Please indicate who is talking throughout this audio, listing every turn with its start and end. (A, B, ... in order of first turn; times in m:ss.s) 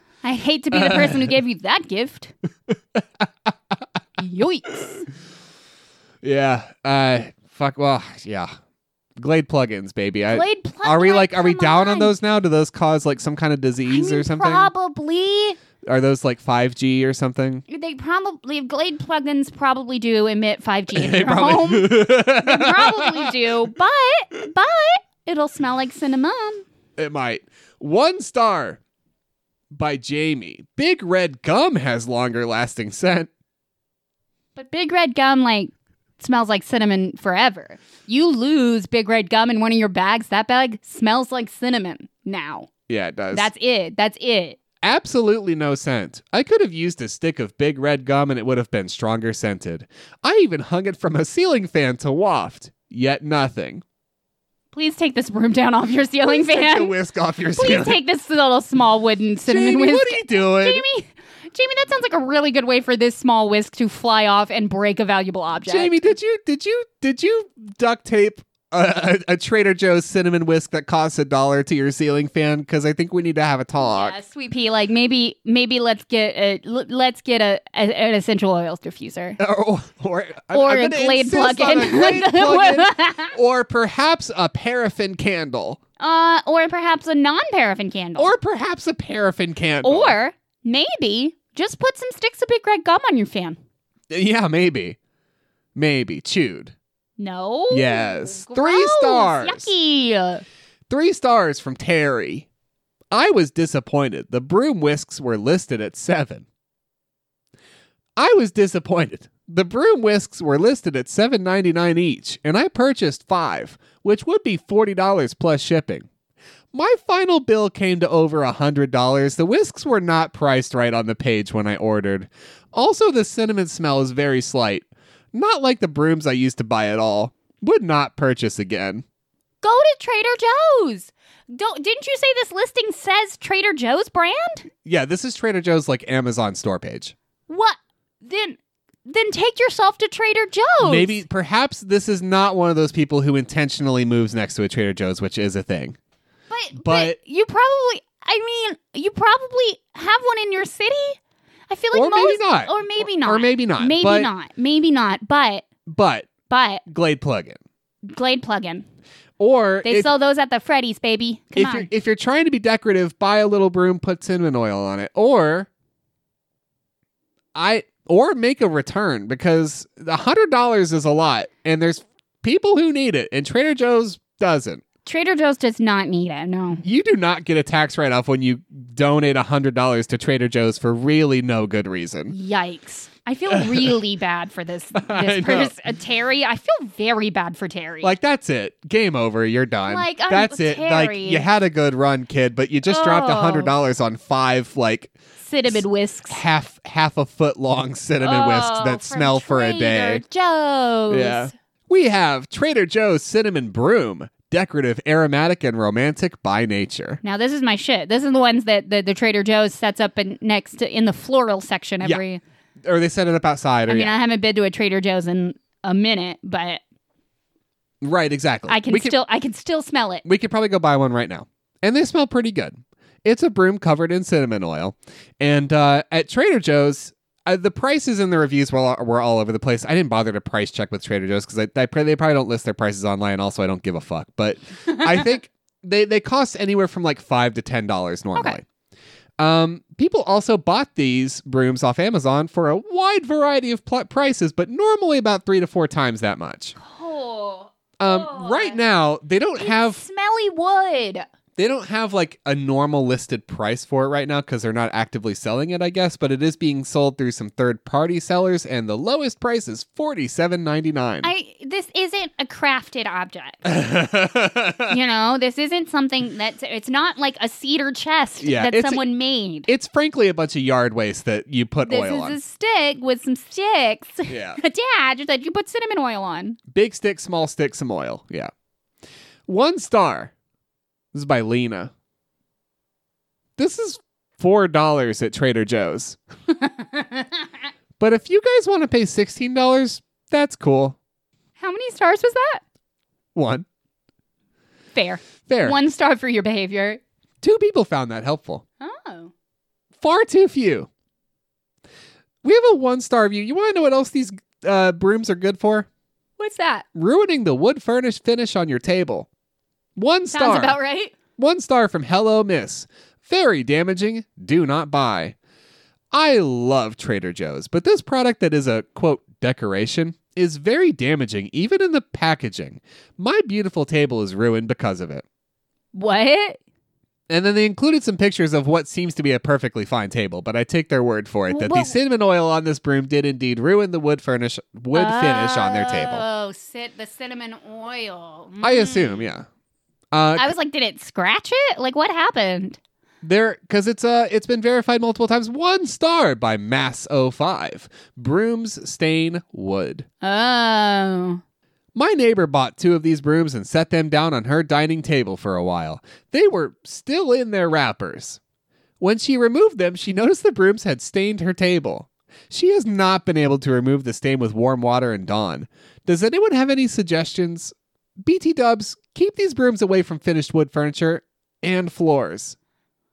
0:00.2-0:02.3 A
0:00.7-0:01.3 B
0:02.9-0:03.3 B
0:04.2-0:05.0 A
0:06.2-0:08.5 B
0:09.2-0:14.7 B
0:10.3-0:12.1 A
0:13.9-0:15.6 A
0:15.8-0:17.6 B
0:17.7-0:26.6 A
0:20.9-0:23.5 B
0:27.0-0:28.8 B
0:29.7-0:33.3 B
0:34.6-0:42.7 A
0:42.9-0:43.5 B
0:43.3-0:44.6 A
0:44.8-0:53.8 B
0:54.7-0:56.9 A
0:56.3-0:58.0 B
0:57.6-1:06.1 A
0:59.4-1:00.8 B
1:05.6-1:14.2 B
1:13.8-1:19.4 A
1:19.4-1:25.8 B
1:20.5-1:23.3 A
1:26.0-1:28.3 A
1:28.2-1:30.1 B
1:29.8-1:33.6 A
1:34.1-1:35.0 B
1:35.7-1:36.7 B
1:37.2-1:40.4 A
1:37.7-1:39.7 B
1:40.9-1:42.5 B
1:43.1-1:46.5 B
1:48.2-1:56.1 B
1:56.7-2:09.0 B
2:09.6-2:14.7 A
2:14.8-2:17.1 B
2:17.5-2:21.2 A
2:20.8-2:26.0 B
2:26.5-2:31.2 A
2:26.7-2:27.2 B
2:31.7-2:35.6 A
2:31.9-2:34.3 B
2:35.9-2:36.3 B
2:36.5-2:36.8 A
2:36.8-2:37.6 B
2:38.0-2:38.9 A
2:39.4-2:40.1 B
2:39.8-2:41.9 A
2:41.5-2:45.7 B
2:47.5-2:54.8 B
2:55.0-2:56.8 A
2:56.8-3:02.3 B
3:02.3-3:08.1 A
3:03.5-3:04.0 B
3:05.0-3:05.7 B
3:08.0-3:15.1 B
3:09.9-3:11.4 A
3:12.9-3:13.7 A
3:15.4-3:16.4 A
3:15.7-3:20.2 B
3:18.2-3:21.5 A
3:21.1-3:27.2 B
3:27.2-3:32.4 A
3:32.8-3:34.2 B
3:33.9-3:36.8 A
3:38.0-3:39.2 B
3:38.7-3:40.2 A
3:40.2-3:58.6 B
3:59.4-4:06.8 B
4:06.8-4:08.8 A
4:08.0-4:10.0 B
4:09.6-4:11.2 A
4:11.6-4:21.3 B
4:21.2-4:23.6 A
4:23.6-4:25.0 B
4:24.9-4:29.7 A
4:28.4-4:29.0 B
4:29.7-4:32.4 B
4:31.9-4:36.6 A
4:34.3-4:34.6 B
4:36.7-4:38.5 B
4:39.5-4:40.3 B
4:41.1-4:41.9 B
4:43.6-4:46.2 B
4:46.5-4:47.5 A
4:48.0-4:51.0 B
4:51.6-4:52.6 A
4:53.3-4:53.6 B
4:54.9-4:57.0 A
4:55.5-4:55.8 B
4:57.4-4:58.6 B
4:58.8-4:59.3 A
5:00.0-5:00.9 B
5:02.4-5:05.9 B
5:06.4-5:06.8 A
5:06.9-5:09.3 B
5:10.0-5:10.8 B
5:10.3-5:11.1 A
5:11.4-5:15.4 B
5:16.1-5:25.2 B
5:25.9-5:26.6 A
5:27.3-5:36.2 B
5:31.5-5:31.9 A
5:34.9-5:39.2 A
5:38.6-5:39.5 B
5:40.1-5:40.5 B
5:40.3-5:42.8 A
5:43.2-5:50.0 B
5:50.2-5:51.4 A
5:51.9-5:58.4 B
5:59.0-6:12.6 B